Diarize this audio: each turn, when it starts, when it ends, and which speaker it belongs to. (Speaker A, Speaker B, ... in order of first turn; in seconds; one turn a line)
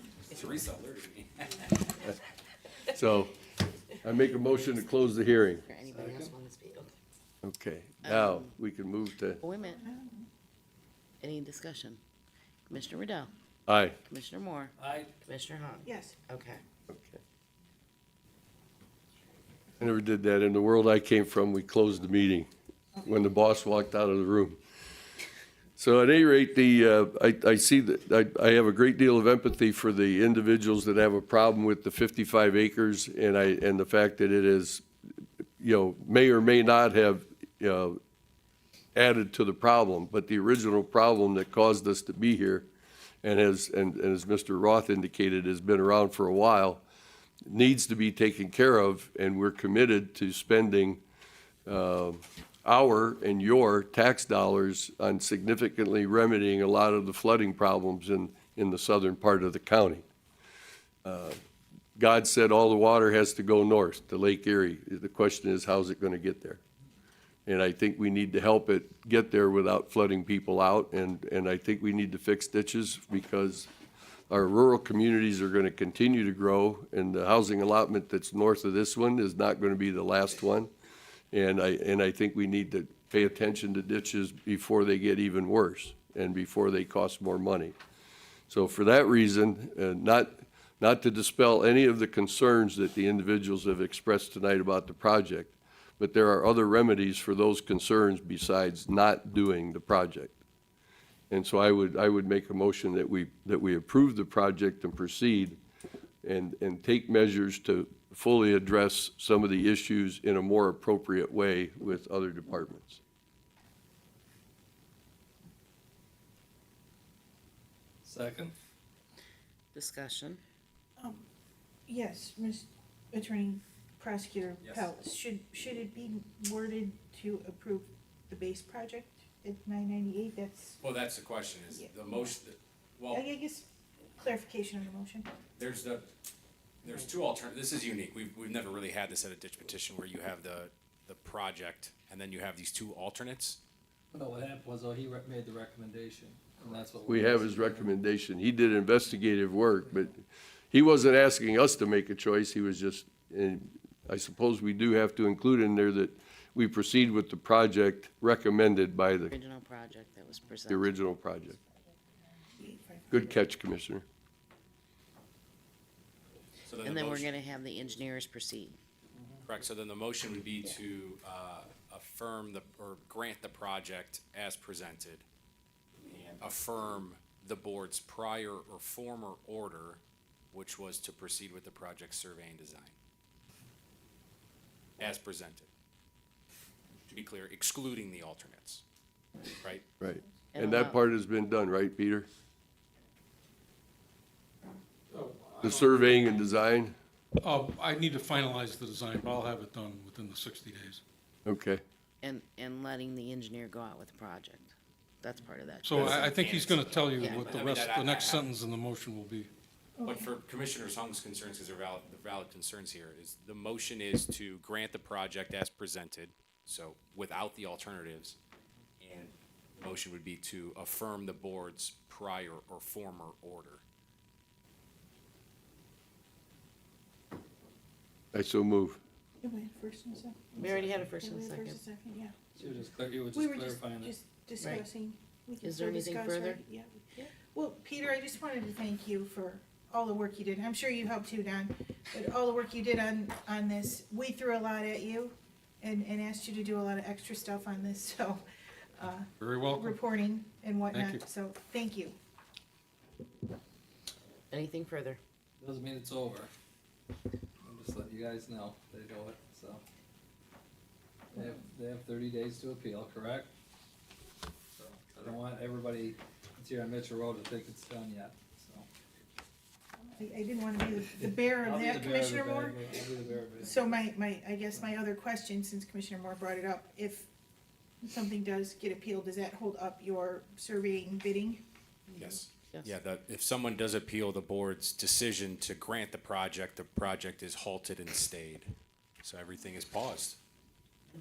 Speaker A: 0.3-1.7
Speaker B: 2.9-3.3
Speaker B: 4.0-5.7
Speaker C: 5.6-7.0
Speaker D: 5.8-6.3
Speaker B: 7.4-9.4
Speaker C: 8.0-8.6
Speaker C: 9.4-9.8
Speaker E: 9.6-10.3
Speaker C: 11.2-12.0
Speaker C: 12.7-13.3
Speaker B: 13.7-14.0
Speaker C: 14.1-16.6
Speaker D: 14.8-15.1
Speaker E: 15.8-16.1
Speaker B: 16.9-17.2
Speaker B: 19.8-22.5
Speaker B: 23.0-24.6
Speaker B: 25.8-34.8
Speaker B: 35.6-38.0
Speaker B: 39.0-42.7
Speaker B: 43.2-46.8
Speaker B: 47.5-51.0
Speaker B: 51.7-60.0
Speaker B: 61.0-61.4
Speaker B: 62.0-66.6
Speaker B: 67.5-73.7
Speaker B: 74.3-80.7
Speaker B: 81.3-87.7
Speaker B: 88.5-100.4
Speaker B: 101.3-105.6
Speaker B: 106.2-113.0
Speaker D: 118.0-118.5
Speaker C: 119.7-120.4
Speaker E: 121.0-121.2
Speaker E: 121.9-130.8
Speaker A: 124.6-124.9
Speaker A: 130.8-133.2
Speaker E: 131.7-132.3
Speaker E: 133.1-135.3
Speaker A: 135.6-136.1
Speaker A: 136.8-143.6
Speaker D: 144.1-148.0
Speaker B: 147.1-159.3
Speaker C: 159.2-161.0
Speaker B: 160.7-161.6
Speaker E: 162.6-163.2
Speaker B: 163.1-164.0
Speaker A: 166.7-167.3
Speaker C: 166.8-168.8
Speaker A: 169.4-175.2
Speaker A: 176.1-180.0
Speaker A: 180.5-182.9
Speaker A: 185.0-185.7
Speaker A: 187.1-188.8
Speaker A: 189.6-189.8
Speaker B: 190.0-192.3
Speaker C: 190.5-191.0
Speaker F: 195.1-196.2
Speaker B: 195.6-196.9
Speaker F: 197.4-201.0
Speaker B: 201.4-201.8
Speaker C: 202.2-206.3
Speaker F: 205.8-209.5
Speaker A: 205.9-208.5
Speaker C: 207.2-207.4
Speaker E: 210.0-210.3
Speaker A: 210.0-218.4
Speaker A: 219.0-223.8
Speaker B: 228.3-229.0
Speaker E: 229.4-232.5
Speaker C: 230.6-231.8
Speaker D: 232.6-234.2
Speaker E: 233.3-237.0
Speaker C: 234.6-234.8
Speaker C: 235.6-236.6
Speaker E: 237.5-248.4
Speaker E: 249.0-252.1
Speaker F: 249.4-250.0
Speaker F: 250.9-251.2
Speaker C: 254.5-255.2
Speaker D: 255.6-256.5
Speaker D: 257.6-259.8
Speaker D: 261.3-263.5
Speaker D: 264.8-268.9
Speaker E: 270.1-273.1
Speaker D: 271.0-274.1
Speaker E: 273.6-277.3
Speaker E: 278.0-281.6
Speaker A: 282.1-288.7
Speaker A: 289.2-290.4